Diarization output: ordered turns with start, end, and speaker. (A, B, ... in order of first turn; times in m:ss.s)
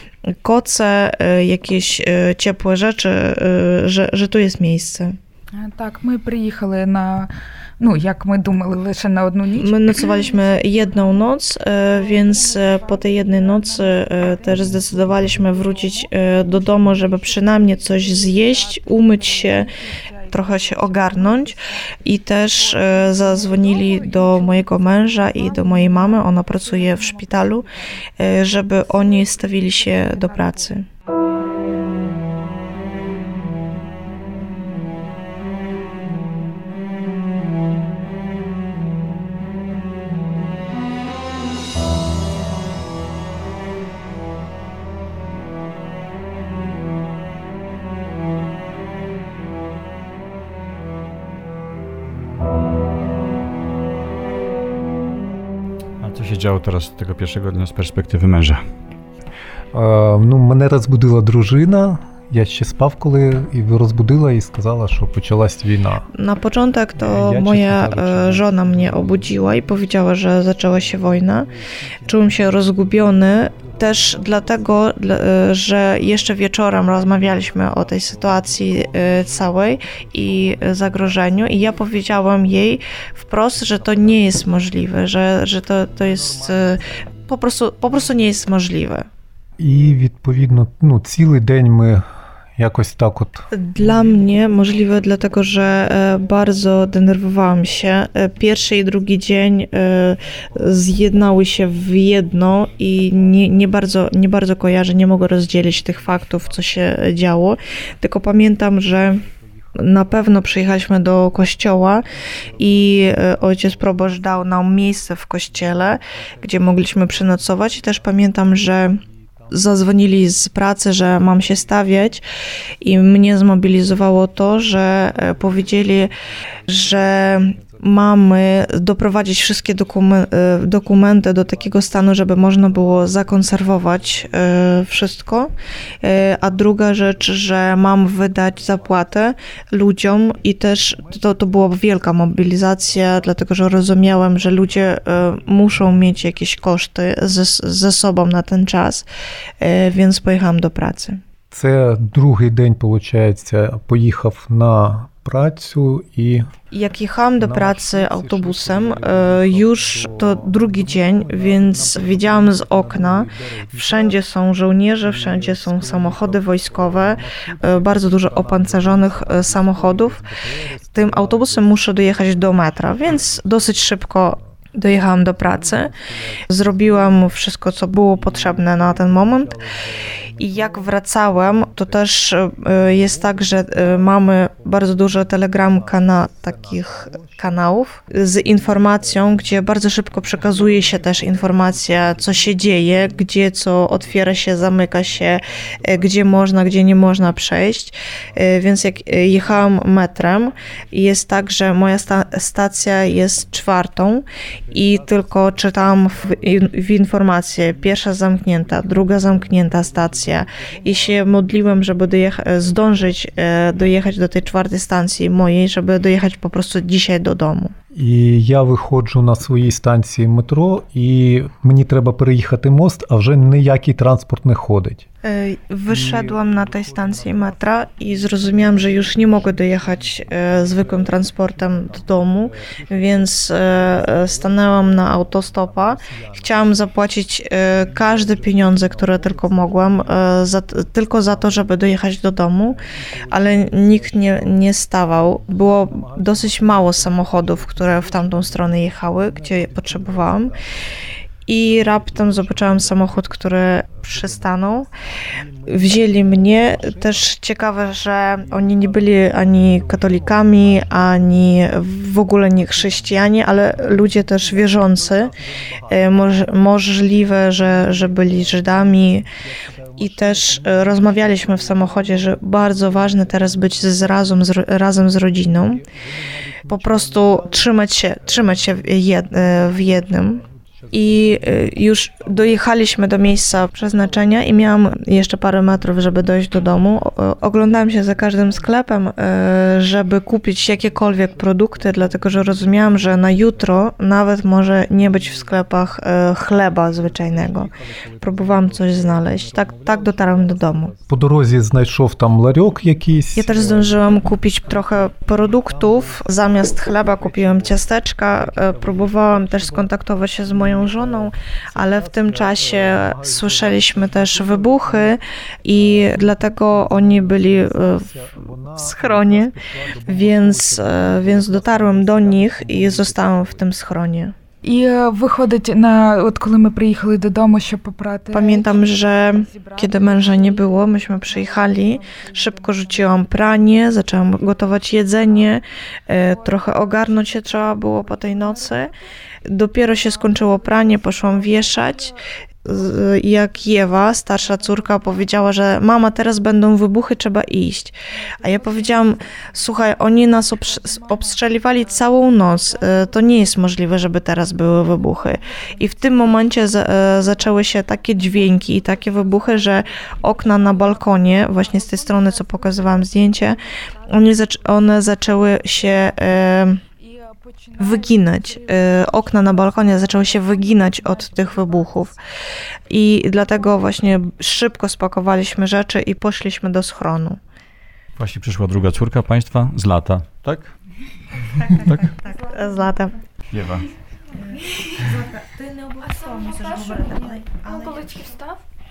0:00.4-0:05.2 A
0:05.5-0:28.1 B
0:09.5-0:19.7 A
0:20.3-0:27.7 A
0:28.2-0:30.9 A
0:28.7-0:30.8 B
0:56.0-0:58.6 C
0:59.7-1:06.1 D
1:06.1-1:11.5 A
1:07.0-1:09.9 D
1:10.7-1:14.8 D
1:12.0-1:29.1 A
1:17.0-1:22.4 D
1:23.5-1:24.4 D
1:26.0-1:26.8 D
1:29.6-1:34.3 D
1:33.5-1:49.2 A
1:49.8-2:02.2 A
2:02.8-2:06.2 A
2:06.7-2:15.5 A
2:06.7-2:07.8 D
2:13.6-2:14.0 D
2:16.0-2:29.1 A
2:21.0-2:21.5 D
2:29.6-2:31.2 A
2:31.5-2:36.5 D
2:36.7-2:50.2 A
2:37.4-2:44.2 D
2:45.0-2:51.6 D
2:50.9-2:56.0 A
2:55.8-2:57.1 D
2:56.5-2:59.6 A
2:58.2-3:00.8 D
3:00.4-3:37.7 A
3:02.9-3:04.1 D
3:05.6-3:07.3 D
3:09.0-3:09.3 D
3:10.3-3:13.2 D
3:14.2-3:16.5 D
3:19.2-3:19.5 D
3:24.7-3:26.6 D
3:28.7-3:31.6 D
3:32.7-3:33.2 D
3:37.9-3:45.1 D
3:45.2-4:10.6 A
3:45.9-3:47.5 D
3:48.5-3:54.7 D
3:56.1-3:56.5 D
3:58.1-4:00.1 D
4:03.0-4:04.5 D
4:05.9-4:10.6 D
4:11.5-4:14.9 A
4:11.7-4:13.2 D
4:14.1-4:14.5 D
4:15.4-4:17.2 D
4:15.6-4:25.4 A
4:18.6-4:21.6 D
4:24.0-4:26.3 D
4:25.9-4:29.3 A
4:27.5-4:34.0 D
4:30.0-4:35.9 A
4:35.7-4:37.3 D
4:36.7-5:01.0 A
4:39.4-4:41.8 D
4:50.8-4:53.5 D
4:55.2-4:55.6 D
4:56.9-5:04.8 D
5:03.4-5:18.1 A
5:05.4-5:06.4 D
5:07.2-5:07.7 D
5:08.4-5:09.9 D
5:10.5-5:15.2 D
5:15.7-5:23.6 D
5:18.8-5:24.4 A
5:24.6-5:33.9 B
5:28.3-5:38.9 A
5:35.2-5:35.6 B
5:36.2-5:38.9 B
5:39.4-6:06.8 A
5:40.5-5:41.8 B
5:48.4-5:50.1 B
5:50.6-5:51.3 B
5:52.7-5:53.2 B
5:55.0-5:56.4 B
5:58.2-5:59.8 B
6:00.3-6:01.1 B
6:01.6-6:03.4 B
6:04.0-6:04.3 B
6:07.0-6:12.2 B
6:07.8-6:12.1 A
6:12.9-6:17.4 A
6:13.5-6:13.8 B
6:18.2-6:20.7 C
6:21.5-6:23.2 A
6:21.8-6:22.1 C
6:22.5-6:22.9 E
6:23.5-6:23.9 C
6:24.4-6:28.2 A
6:24.8-6:25.0 E
6:26.0-6:28.6 E